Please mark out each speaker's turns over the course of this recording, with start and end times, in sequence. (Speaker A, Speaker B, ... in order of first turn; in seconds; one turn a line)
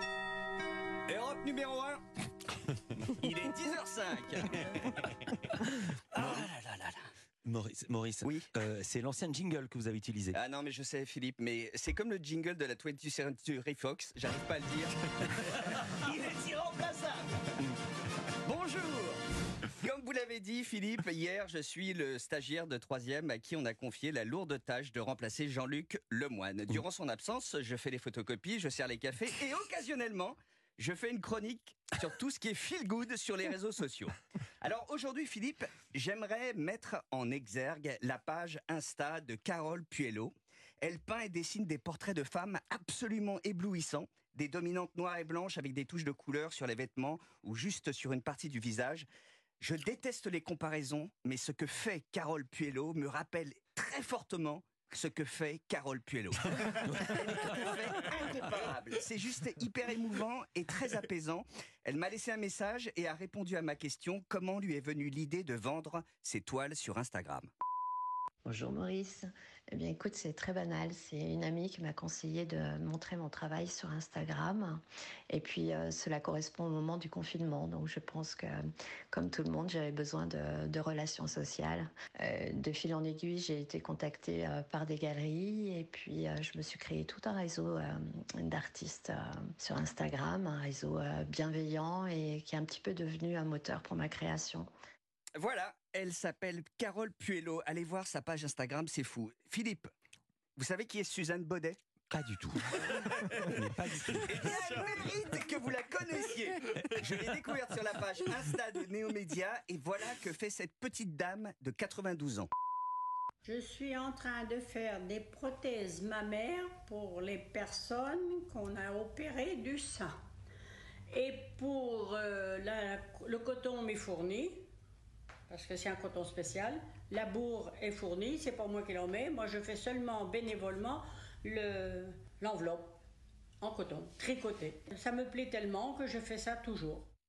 Speaker A: 1.1-2.0
Speaker A: 3.0-5.3
Speaker A: 6.2-7.0
Speaker B: 7.5-10.4
Speaker A: 10.3-17.5
Speaker A: 18.4-19.2
Speaker A: 19.8-49.1
Speaker A: 49.6-67.5
Speaker B: 56.6-57.8
Speaker C: 68.5-78.6
Speaker C: 79.1-94.7
Speaker A: 95.4-99.9
Speaker A: 100.6-101.8
Speaker B: 102.1-105.0
Speaker A: 104.1-112.5
Speaker D: 113.4-120.1
Speaker D: 121.1-124.6
Speaker D: 125.5-133.0
Speaker D: 133.6-137.1